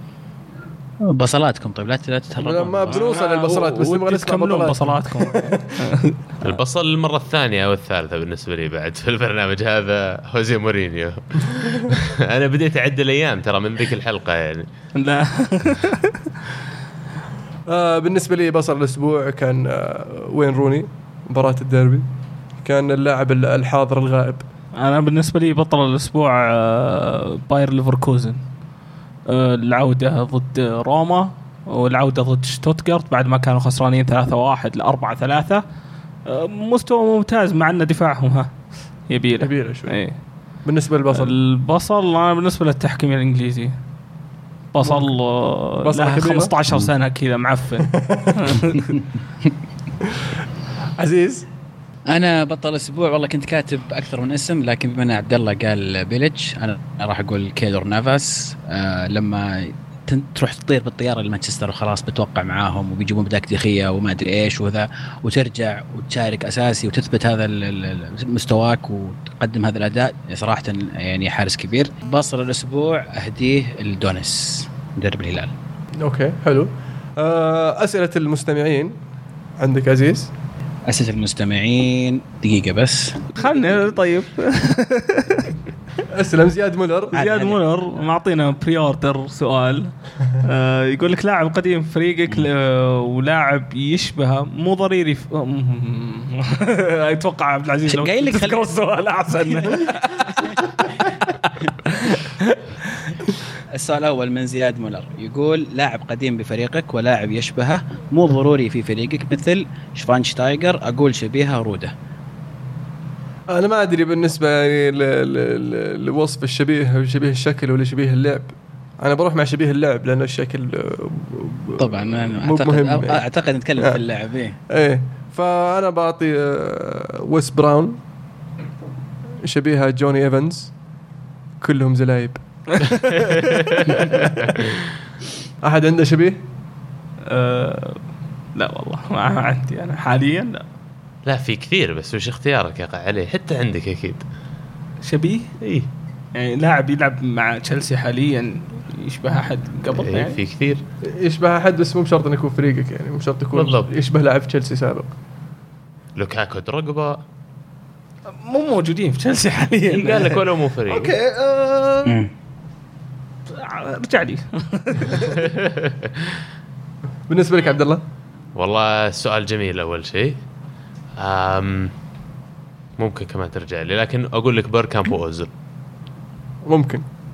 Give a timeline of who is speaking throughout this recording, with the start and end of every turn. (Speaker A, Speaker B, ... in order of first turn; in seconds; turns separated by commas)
Speaker A: 1.0-3.0, Speaker B: 2.4-5.6, Speaker C: 2.9-6.2, Speaker D: 6.4-14.7, Speaker C: 14.9-16.2, Speaker B: 17.7-22.1, Speaker B: 22.6-24.4, Speaker C: 24.8-28.4, Speaker C: 29.3-35.6, Speaker C: 36.2-38.5, Speaker C: 39.1-40.1, Speaker B: 39.4-40.0, Speaker B: 40.6-41.4, Speaker C: 41.1-43.7, Speaker C: 44.7-48.9, Speaker B: 45.8-46.5, Speaker B: 47.9-48.4, Speaker B: 50.0-50.3, Speaker B: 51.0-51.5, Speaker A: 52.1-75.5, Speaker B: 76.0-78.9, Speaker B: 79.6-80.3, Speaker A: 80.8-83.2, Speaker C: 83.3-85.5, Speaker B: 86.1-87.2, Speaker C: 87.1-102.6, Speaker A: 87.1-87.6, Speaker A: 97.9-98.6, Speaker A: 99.5-101.1, Speaker A: 103.7-111.9, Speaker B: 113.5-123.2, Speaker A: 121.8-124.6, Speaker B: 123.8-124.0, Speaker B: 124.7-128.0, Speaker B: 129.4-130.7, Speaker B: 131.6-132.4, Speaker C: 132.8-133.4, Speaker D: 133.2-134.7, Speaker B: 134.0-134.3, Speaker B: 135.6-136.4, Speaker C: 137.3-138.0, Speaker C: 138.5-140.6, Speaker D: 141.2-144.2, Speaker C: 145.0-145.5, Speaker D: 145.6-145.9, Speaker C: 146.3-150.4, Speaker D: 149.9-150.8, Speaker B: 151.0-155.1, Speaker D: 153.5-153.9, Speaker D: 156.2-157.2, Speaker C: 158.4-162.2, Speaker D: 159.9-161.1, Speaker A: 162.1-162.3, Speaker C: 163.5-165.4, Speaker D: 165.3-166.4, Speaker B: 167.3-168.0, Speaker D: 168.5-170.4, Speaker D: 171.2-171.9, Speaker D: 173.0-175.5, Speaker B: 176.7-177.0